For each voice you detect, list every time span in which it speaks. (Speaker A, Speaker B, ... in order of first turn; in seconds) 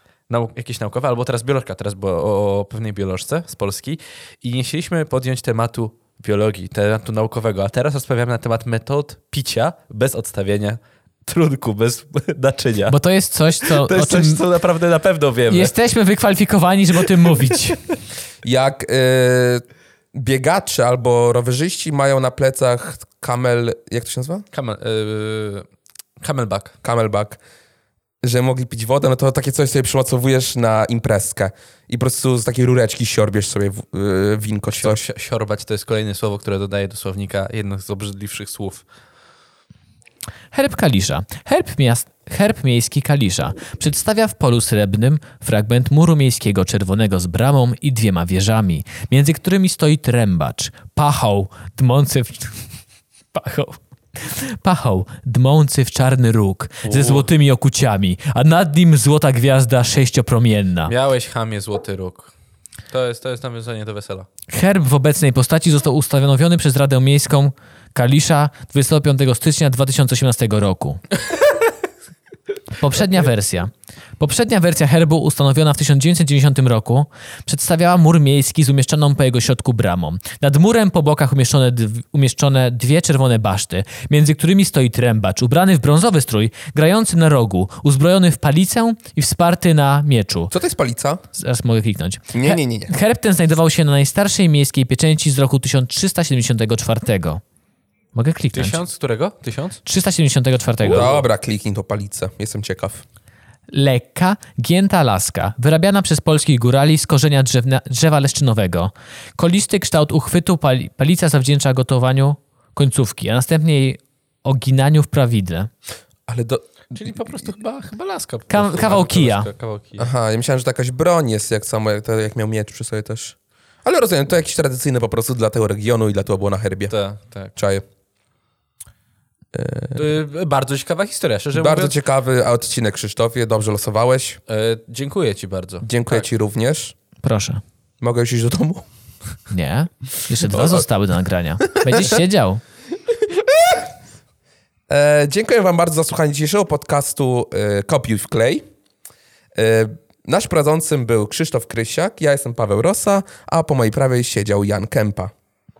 Speaker A: 0.3-13.0, 13.6-15.7, 24.5-25.6, 26.2-26.8, 34.7-38.8, 56.9-57.3, 60.9-62.3, 62.9-64.3, 98.5-99.8, 100.9-101.2, 116.9-120.1, 126.9-127.5, 129.9-132.0, 134.5-136.2
Speaker B: 12.9-14.4, 15.5-17.8, 40.5-52.6, 53.3-60.9, 64.5-71.0, 72.7-90.5, 91.3-97.4, 98.1-98.8, 99.8-101.1, 103.7-115.7, 118.5-119.5, 137.2-137.6, 139.5-142.6
Speaker C: 18.4-24.4, 26.8-27.4, 28.2-35.0, 90.5-91.2, 92.3-92.9, 100.8-103.0, 116.3-117.1, 120.0-126.9, 127.6-127.8, 129.5-130.1, 131.5-134.4, 135.8-136.9, 138.0-138.9, 140.4-140.8, 141.7-142.1, 143.3-143.8, 144.9-148.6, 149.6-155.3